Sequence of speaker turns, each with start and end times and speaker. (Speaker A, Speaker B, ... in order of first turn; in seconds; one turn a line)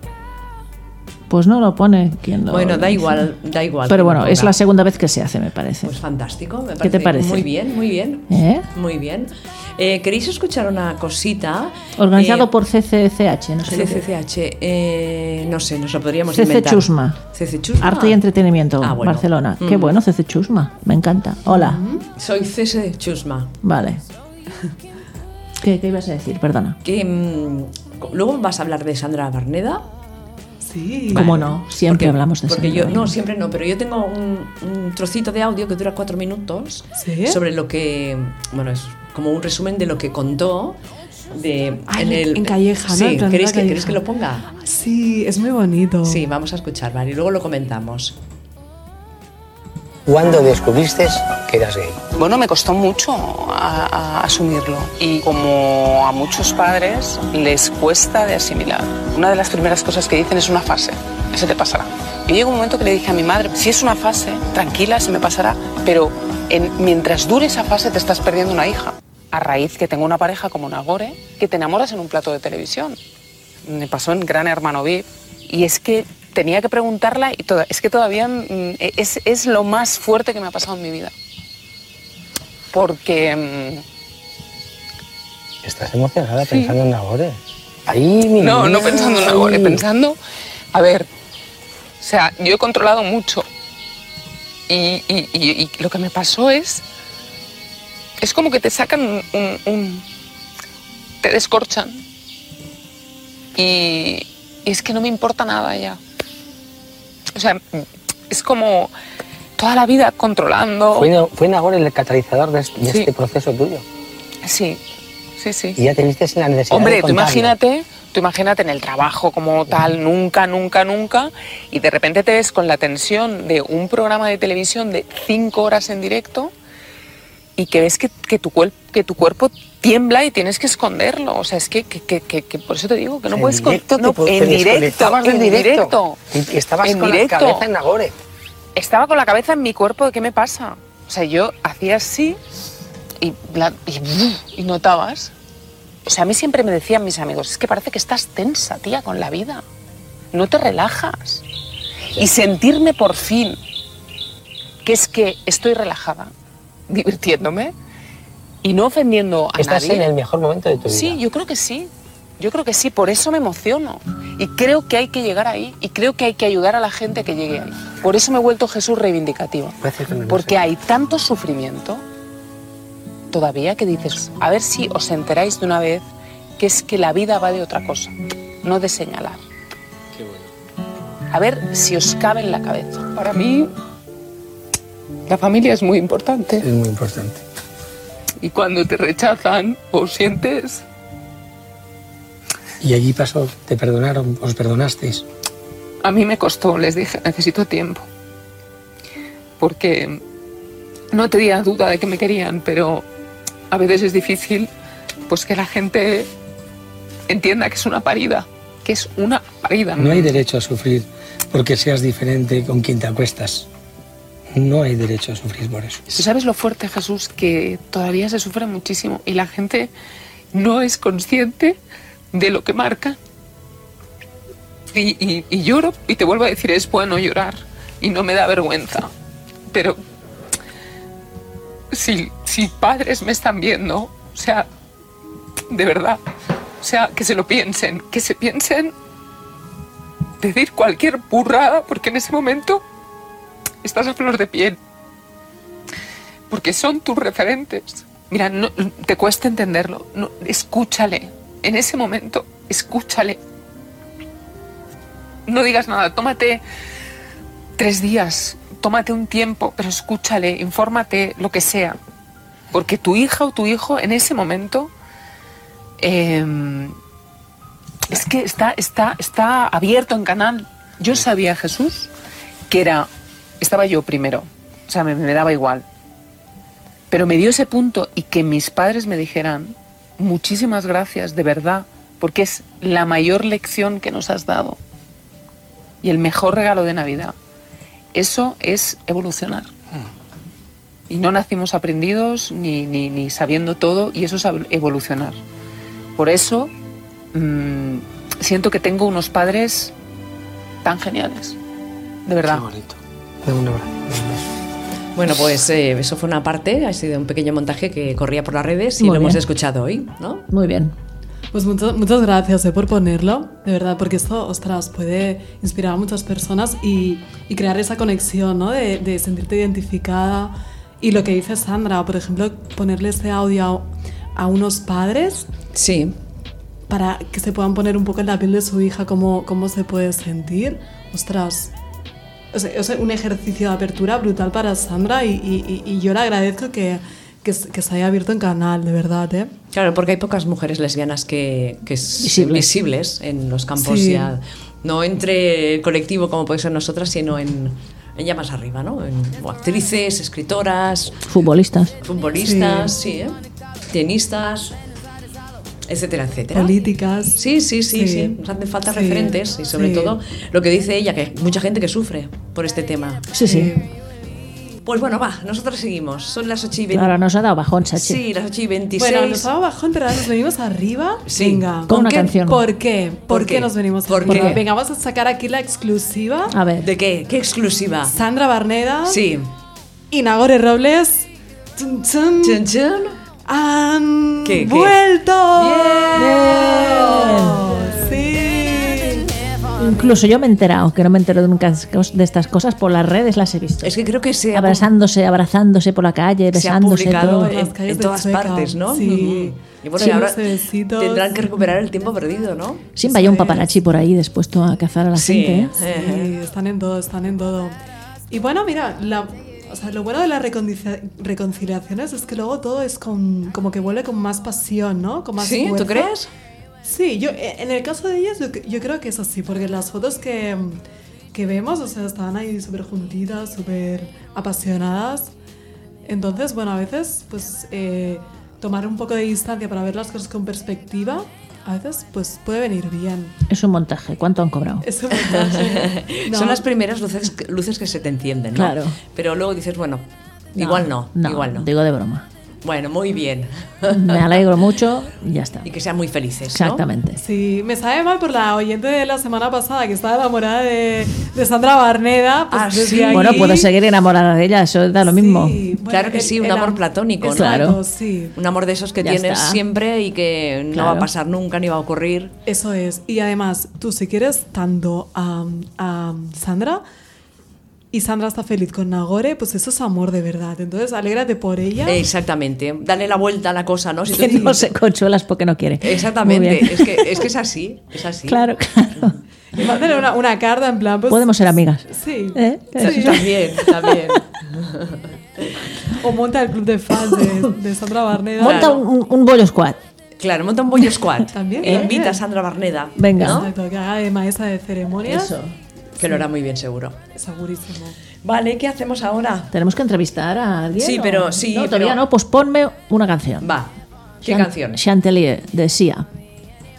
Speaker A: 1.3-3.3
Speaker B: 2.5-4.5
Speaker A: 3.9-5.9
Speaker B: 5.8-12.5
Speaker A: 6.8-7.5
Speaker A: 8.3-8.7
Speaker A: 12.0-14.1
Speaker B: 13.7-18.2
Speaker A: 16.3-17.2
Speaker A: 17.8-21.8
Speaker B: 18.8-20.0
Speaker C: 21.5-22.1
Speaker B: 22.2-23.5
Speaker A: 23.6-24.0
Speaker A: 25.6-26.8
Speaker B: 26.8-29.8
Speaker C: 30.6-31.4
Speaker A: 31.1-33.2
Speaker B: 31.1-40.8
Speaker C: 37.0-37.4
Speaker B: 41.3-44.5
Speaker C: 41.9-44.0
Speaker C: 44.6-46.3
Speaker B: 46.0-48.2
Speaker D: 50.1-52.1
Speaker E: 52.2-73.0
Speaker E: 73.7-81.1
Speaker E: 82.7-83.8
Speaker D: 85.6-89.8
Speaker E: 86.4-86.8
Speaker E: 88.4-90.2
Speaker E: 90.7-91.1
Speaker E: 92.0-93.5
Speaker E: 94.7-96.8
Speaker E: 98.2-100.0
Speaker E: 101.2-102.0
Speaker E: 103.6-106.0
Speaker E: 107.3-108.9
Speaker E: 109.6-111.1
Speaker D: 110.9-113.8
Speaker E: 112.8-113.1
Speaker E: 114.4-114.8
Speaker E: 115.4-115.8
Speaker D: 115.8-117.6
Speaker E: 116.7-126.5
Speaker E: 127.6-136.2
Speaker D: 133.3-138.1
Speaker E: 136.8-137.7
Speaker E: 138.8-142.4
Speaker E: 143.2-145.3
Speaker E: 146.1-149.6
Speaker E: 150.3-151.4
Speaker E: 152.2-153.6
Speaker E: 154.8-156.3
Speaker E: 156.9-157.7
Speaker E: 158.6-160.1
Speaker D: 159.6-161.2
Speaker E: 160.9-172.0
Speaker D: 169.8-170.6
Speaker E: 173.3-176.1
Speaker E: 176.6-178.1
Speaker E: 178.6-179.4
Speaker D: 180.2-180.4
Speaker E: 181.3-183.7
Speaker E: 185.3-186.7
Speaker D: 186.6-187.4
Speaker E: 188.4-190.8
Speaker D: 192.8-195.2
Speaker E: 196.0-198.1
Speaker E: 199.6-200.2
Speaker E: 201.1-203.1
Speaker E: 203.7-204.7
Speaker E: 205.3-206.3
Speaker E: 207.3-210.4
Speaker D: 209.9-213.7
Speaker D: 214.5-216.2
Speaker E: 216.1-219.9
Speaker E: 220.5-221.8
Speaker E: 222.3-223.2
Speaker E: 224.9-229.1
Speaker E: 229.7-230.0
Speaker E: 231.9-234.7
Speaker E: 235.7-236.2
Speaker E: 236.8-238.9
Speaker E: 240.4-242.8
Speaker E: 243.8-244.8
Speaker E: 246.5-253.4
Speaker E: 255.5-256.6
Speaker E: 257.8-262.0
Speaker E: 262.7-264.9
Speaker E: 266.0-267.0
Speaker E: 268.1-272.1
Speaker E: 272.7-273.1
Speaker E: 273.6-275.8
Speaker E: 277.1-284.8
Speaker E: 286.0-287.3
Speaker E: 288.1-289.7
Speaker E: 291.1-295.4
Speaker E: 296.2-296.7
Speaker E: 297.3-299.9
Speaker E: 300.8-301.6
Speaker E: 302.3-302.7
Speaker D: 302.4-304.4
Speaker B: 305.2-310.4
Speaker A: 309.0-309.4
Speaker A: 310.5-310.9
Speaker C: 311.5-325.5
Speaker B: 325.7-326.1
Speaker C: 326.9-331.7
Speaker C: 332.5-339.5
Speaker B: 339.7-351.2
Speaker A: 342.2-342.8
Speaker C: 343.8-344.3
Speaker A: 351.3-351.9
Speaker B: 352.0-353.4
Speaker C: 352.4-352.9
Speaker B: 353.9-354.8
Speaker B: 355.9-356.8
Speaker C: 356.5-358.4
Speaker B: 357.4-363.3
Speaker C: 358.9-360.2
Speaker A: 363.3-363.7
Speaker C: 363.4-363.8
Speaker B: 364.9-367.2
Speaker A: 366.9-368.2
Speaker B: 367.9-369.5
Speaker C: 369.0-376.6
Speaker B: 371.3-371.7
Speaker A: 371.9-372.7
Speaker B: 373.3-374.6
Speaker A: 374.3-374.6
Speaker A: 376.5-376.9
Speaker B: 376.8-378.1
Speaker C: 378.1-379.2
Speaker B: 379.1-379.5
Speaker C: 380.1-382.6
Speaker B: 382.4-383.2
Speaker C: 383.5-389.3
Speaker B: 384.4-385.0
Speaker B: 385.5-387.4
Speaker A: 386.1-387.6
Speaker A: 389.8-394.0
Speaker B: 393.8-394.9
Speaker A: 394.5-397.6
Speaker B: 396.5-402.9
Speaker C: 397.3-401.4
Speaker A: 402.9-405.7
Speaker C: 403.0-403.7
Speaker B: 405.1-406.4
Speaker C: 405.8-407.8
Speaker C: 408.3-416.1
Speaker B: 415.4-416.3
Speaker C: 416.8-420.8
Speaker C: 421.3-425.3
Speaker C: 426.1-433.4
Speaker A: 433.5-434.9
Speaker C: 434.8-436.6
Speaker B: 435.1-441.7
Speaker A: 438.5-439.0
Speaker A: 440.6-442.3
Speaker B: 442.6-444.5
Speaker A: 443.9-445.7
Speaker B: 445.6-446.9
Speaker A: 446.5-447.2
Speaker C: 447.2-453.7
Speaker B: 452.5-453.6
Speaker A: 453.1-455.6
Speaker C: 455.0-458.4
Speaker B: 455.9-457.8
Speaker A: 457.3-457.8
Speaker B: 458.4-462.3
Speaker A: 459.0-459.6
Speaker A: 460.7-461.1
Speaker C: 462.4-466.8
Speaker C: 467.9-472.0
Speaker B: 471.9-474.7
Speaker A: 474.1-477.3
Speaker B: 475.8-479.2
Speaker A: 478.3-479.2
Speaker C: 479.6-483.2
Speaker A: 481.1-484.2
Speaker B: 482.8-485.7
Speaker C: 485.9-488.8
Speaker A: 488.4-489.8
Speaker B: 488.4-488.8
Speaker B: 490.2-493.5
Speaker C: 491.3-492.2
Speaker A: 491.6-491.9
Speaker A: 493.0-493.5
Speaker C: 493.2-495.3
Speaker A: 495.0-495.6
Speaker B: 496.0-497.0
Speaker C: 497.1-498.0
Speaker B: 498.2-499.5
Speaker A: 499.5-503.5
Speaker B: 500.8-502.0
Speaker B: 503.4-503.7
Speaker B: 504.2-504.8
Speaker A: 504.2-506.1